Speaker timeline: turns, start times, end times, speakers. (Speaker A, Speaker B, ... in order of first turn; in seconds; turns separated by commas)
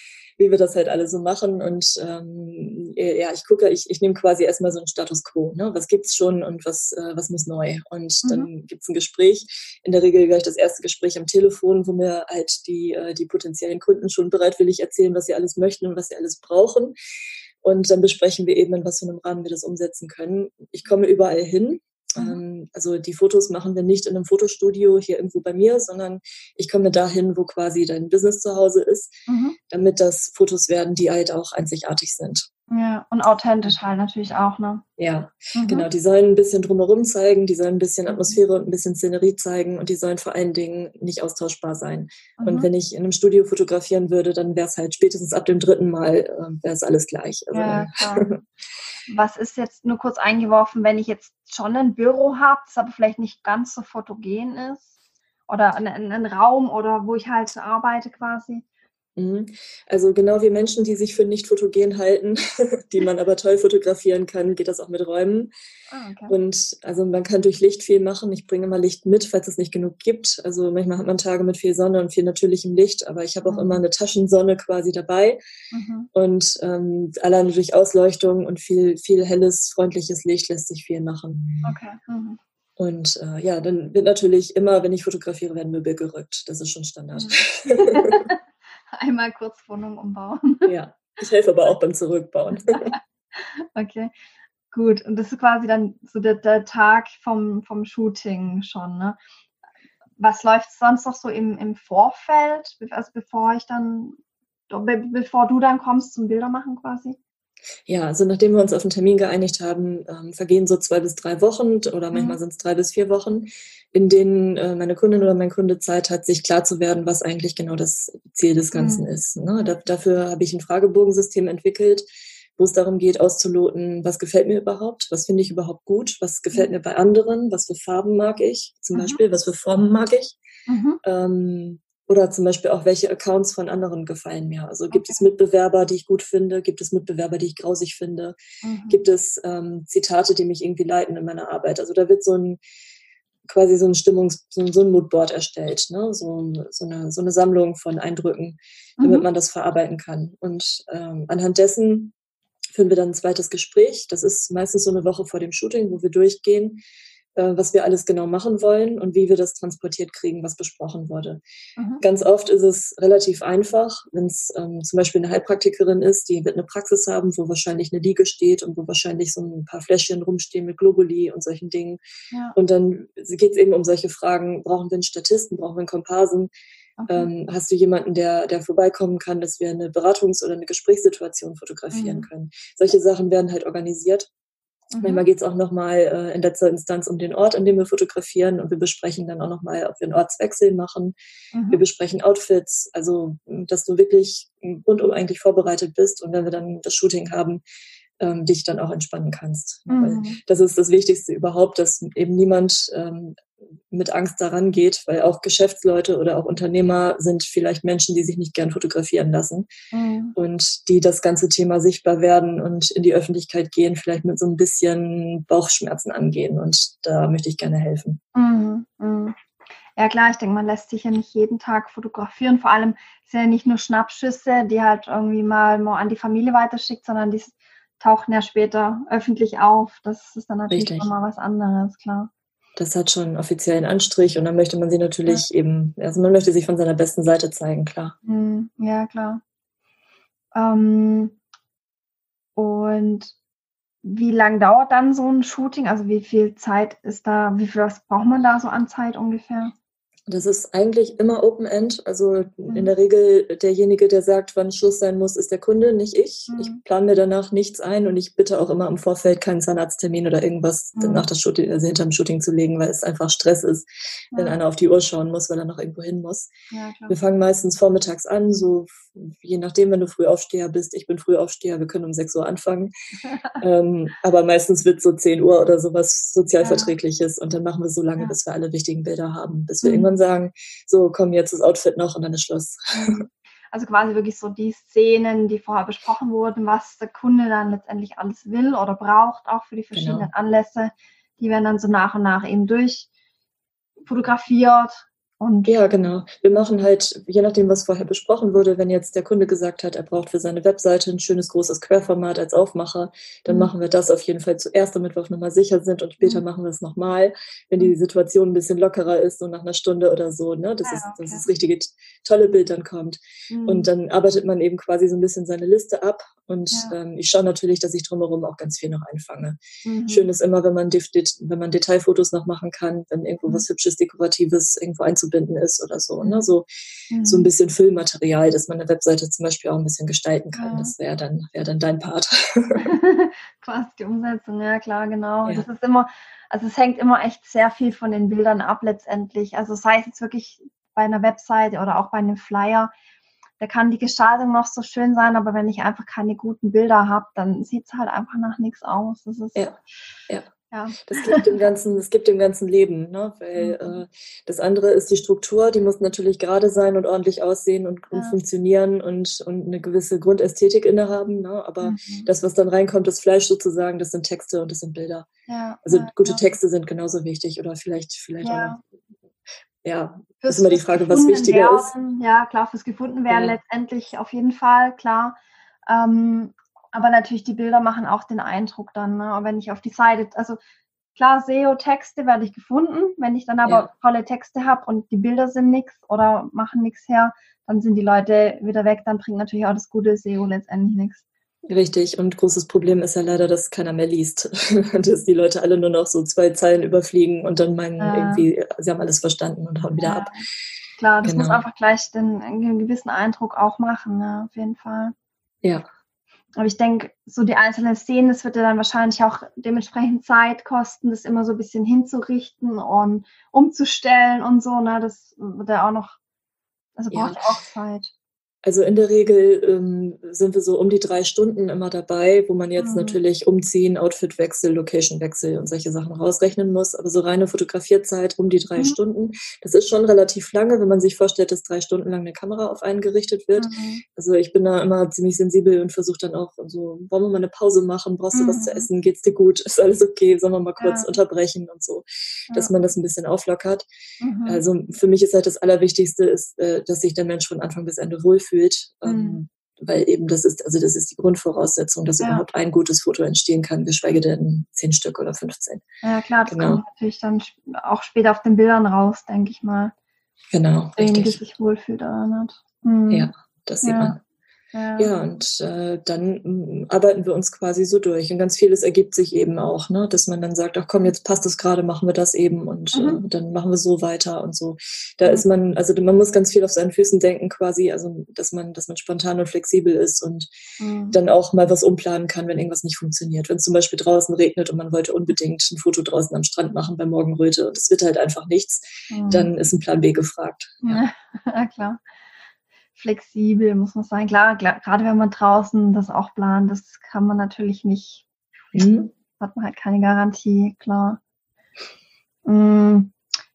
Speaker A: 0.4-16.9, Speaker B: 8.2-8.5, Speaker A: 17.6-29.1, Speaker B: 29.3-29.6, Speaker A: 29.7-32.5, Speaker B: 32.7-34.8, Speaker A: 35.0-48.4, Speaker B: 35.5-35.9, Speaker B: 38.1-38.4, Speaker B: 42.4-42.7, Speaker B: 47.5-48.3, Speaker B: 49.1-54.9, Speaker B: 55.5-58.6, Speaker A: 59.2-65.5, Speaker B: 65.9-66.3, Speaker A: 66.3-75.4, Speaker B: 73.4-73.8, Speaker B: 75.7-76.1, Speaker A: 76.1-81.5, Speaker B: 81.6-82.4, Speaker A: 82.8-88.2, Speaker B: 87.1-88.4, Speaker B: 89.0-90.7, Speaker A: 90.7-92.9, Speaker B: 92.8-94.1, Speaker B: 94.7-99.2, Speaker B: 100.2-104.2, Speaker B: 104.7-107.2, Speaker A: 107.9-130.3, Speaker B: 112.1-112.4, Speaker B: 118.7-119.1, Speaker B: 128.9-129.2, Speaker B: 130.7-131.0, Speaker A: 131.0-138.3, Speaker B: 134.9-135.2, Speaker B: 138.6-139.0, Speaker A: 138.9-142.6, Speaker A: 143.5-152.1, Speaker B: 149.0-149.2, Speaker A: 152.7-156.8, Speaker A: 157.3-161.4, Speaker B: 161.8-162.0, Speaker A: 162.0-172.0, Speaker A: 172.6-176.5, Speaker B: 177.0-177.3, Speaker A: 177.1-184.3, Speaker B: 181.9-182.3, Speaker B: 184.9-185.2, Speaker A: 185.0-191.1, Speaker B: 191.5-191.8, Speaker A: 191.7-197.6, Speaker A: 198.2-209.7, Speaker B: 199.9-200.4, Speaker B: 209.9-210.3, Speaker A: 210.3-218.2, Speaker B: 218.3-219.3, Speaker B: 219.9-232.3, Speaker A: 230.7-231.1, Speaker A: 232.8-238.2, Speaker B: 238.2-239.4, Speaker B: 240.5-241.4, Speaker B: 242.6-243.3, Speaker B: 244.0-249.7, Speaker A: 250.3-266.5, Speaker B: 252.7-252.9, Speaker B: 256.5-256.8, Speaker B: 260.9-261.3, Speaker B: 266.7-267.1, Speaker A: 267.1-272.9, Speaker B: 273.2-273.6, Speaker A: 273.6-283.2, Speaker B: 276.6-276.9, Speaker B: 279.8-280.1, Speaker B: 282.9-293.1, Speaker A: 289.9-290.3, Speaker B: 294.1-295.8, Speaker A: 295.6-326.6, Speaker B: 310.8-311.4, Speaker B: 313.5-313.9, Speaker B: 319.8-320.3, Speaker B: 326.2-326.5, Speaker B: 327.1-327.5, Speaker A: 327.2-332.9, Speaker B: 330.5-330.9, Speaker B: 332.8-342.9, Speaker B: 343.6-349.6, Speaker A: 350.3-365.3, Speaker B: 350.7-351.7, Speaker B: 353.6-354.0, Speaker B: 361.8-362.3, Speaker B: 365.5-366.4, Speaker A: 365.8-368.8, Speaker B: 368.4-368.8, Speaker A: 369.8-371.9, Speaker B: 370.4-380.6, Speaker A: 373.3-373.6, Speaker B: 381.1-391.2, Speaker A: 391.7-400.3, Speaker B: 398.0-398.4, Speaker B: 400.0-400.4, Speaker B: 401.0-405.1, Speaker A: 401.2-401.6, Speaker B: 406.6-416.1, Speaker B: 417.0-418.1, Speaker A: 417.1-417.4, Speaker A: 418.6-443.9, Speaker B: 422.8-423.2, Speaker B: 433.6-434.0, Speaker B: 438.3-438.9, Speaker B: 440.8-441.1, Speaker B: 442.5-442.8, Speaker B: 444.2-444.6, Speaker A: 444.4-455.8, Speaker B: 449.0-449.4, Speaker B: 456.0-459.9, Speaker A: 456.5-456.8, Speaker A: 460.5-461.4, Speaker B: 461.0-463.3, Speaker A: 463.1-464.2, Speaker B: 463.8-464.2, Speaker B: 464.7-465.1, Speaker A: 465.0-480.5, Speaker B: 472.9-473.2, Speaker B: 480.8-481.1, Speaker A: 481.1-491.0, Speaker B: 489.1-489.5, Speaker B: 490.8-492.0, Speaker B: 492.9-498.2, Speaker A: 498.7-499.1, Speaker B: 498.7-501.2, Speaker B: 502.4-503.1